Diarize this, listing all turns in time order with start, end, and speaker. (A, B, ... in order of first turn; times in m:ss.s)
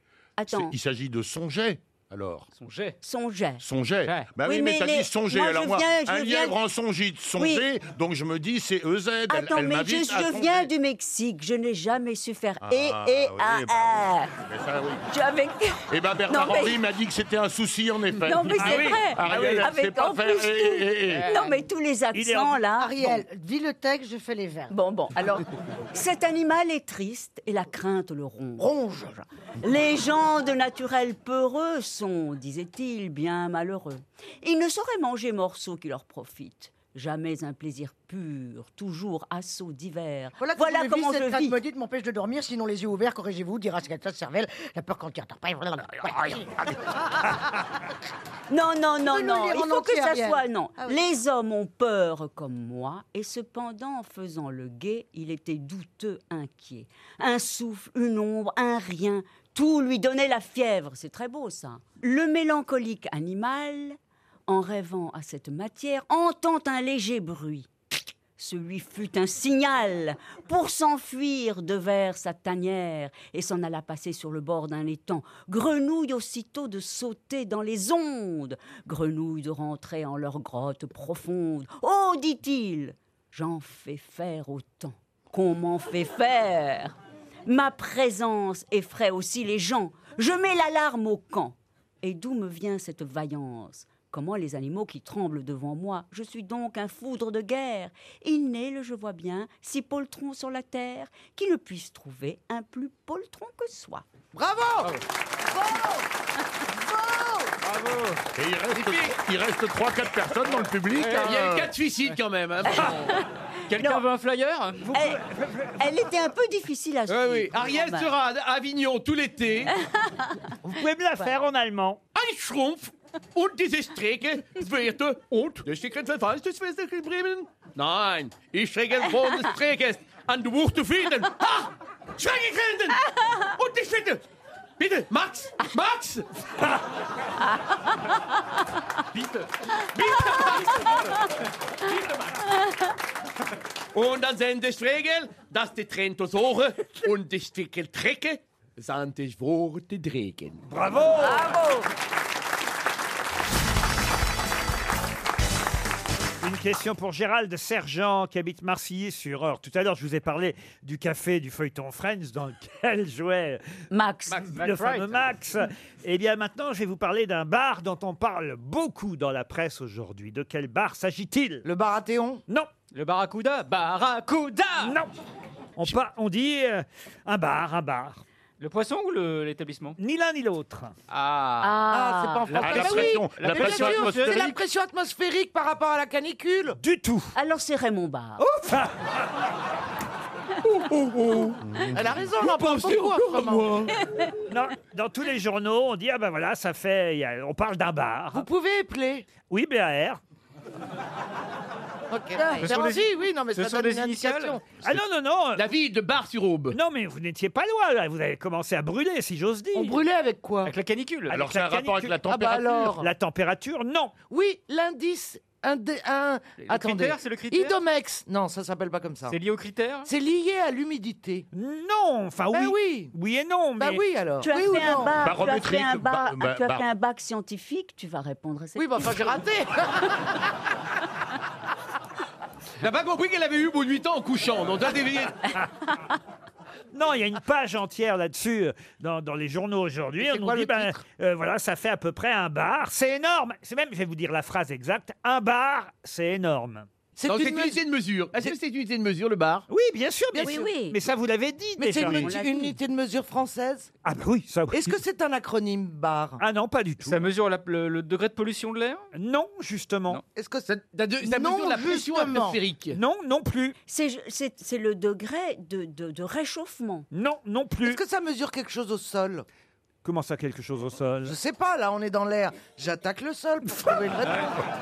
0:00.4-0:00.7 A
0:00.5-0:02.5 B
0:02.5-0:03.0 C
0:03.0-0:03.6 A
0:03.6-0:10.7 B
0:04.0-0:04.3 C
0:04.4-0:06.6 A
0:07.4-0:07.7 A
0:09.3-0:14.3 A
0:12.6-0:15.0 B
0:15.1-0:16.8 A
0:15.9-0:21.3 B
0:18.2-0:22.9 A
0:18.6-0:19.0 D
0:21.0-0:21.6 C
0:22.1-0:23.2 D
0:22.8-0:24.7 E
0:24.7-0:28.7 A
0:28.6-0:29.2 E
0:29.6-0:41.6 A
0:40.4-0:47.3 E
0:48.5-1:07.7 A
0:49.1-0:51.0 E
1:08.4-1:27.0 A
1:27.5-1:44.0 A
1:44.3-1:44.9 F
1:47.0-1:47.3 E
1:47.6-1:48.2 C
1:48.3-1:51.7 B
1:48.7-1:49.2 G
1:50.9-1:51.4 C
1:51.1-1:53.2 G
1:53.7-1:54.9 C
1:53.8-1:54.0 A
1:54.8-1:55.9 D
1:54.9-1:55.2 A
1:55.8-1:58.1 A
1:57.1-1:59.7 G
2:00.6-2:02.0 D
2:02.1-2:14.2 G
2:14.8-2:16.2 G
2:19.2-2:21.2 G
2:23.9-2:30.6 G
2:30.7-2:31.6 D
2:31.2-2:31.9 A
2:36.4-2:43.6 D
2:43.9-2:44.5 A
2:44.4-2:45.2 C
2:44.5-2:51.6 D
2:51.6-2:52.4 F
2:52.9-2:55.0 C
2:54.8-2:55.1 D
2:55.8-2:58.2 D
2:58.6-3:00.0 C
3:00.0-3:00.9 D
3:01.1-3:01.8 C
3:01.6-3:02.5 A
3:01.9-3:06.8 F
3:02.5-3:04.6 C
3:02.6-3:04.4 B
3:06.8-3:07.3 D
3:07.3-3:08.4 A
3:08.6-3:09.0 D
3:11.9-3:13.9 F
3:14.5-3:18.5 D
3:18.3-3:19.2 F
3:19.5-3:20.2 D
3:22.1-3:24.8 F
3:22.6-3:24.6 C
3:24.8-3:25.7 D
3:25.6-3:26.8 G
3:26.7-3:30.0 D
3:29.7-3:30.7 F
3:30.6-3:31.5 C
3:31.3-3:32.4 D
3:31.3-3:33.0 B
3:32.3-3:33.1 F
3:32.9-3:34.1 D
3:34.3-3:39.4 F
3:36.6-3:37.8 C
3:39.3-3:40.1 C
3:40.0-3:41.5 F
3:41.5-3:44.0 D
3:42.5-3:43.1 F
3:43.8-3:45.0 F
3:44.4-3:49.4 A
3:45.2-3:46.8 B
3:48.8-3:50.1 F
3:52.8-3:55.5 G
3:56.9-4:06.9 D
4:00.2-4:01.0 F
4:07.2-4:07.8 F
4:07.2-4:09.6 G
4:09.7-4:12.3 D
4:10.4-4:11.0 A
4:11.8-4:13.9 F
4:12.0-4:12.8 A
4:14.0-4:15.0 D
4:14.7-4:16.4 F
4:16.4-4:17.2 D
4:17.0-4:19.0 C
4:19.1-4:20.2 D
4:20.3-4:20.7 F
4:20.6-4:23.0 G
4:21.2-4:22.6 E
4:22.9-4:23.8 D
4:23.9-4:27.1 A
4:27.1-4:28.0 D
4:27.8-4:29.4 F
4:30.0-4:31.4 D
4:31.2-4:34.6 F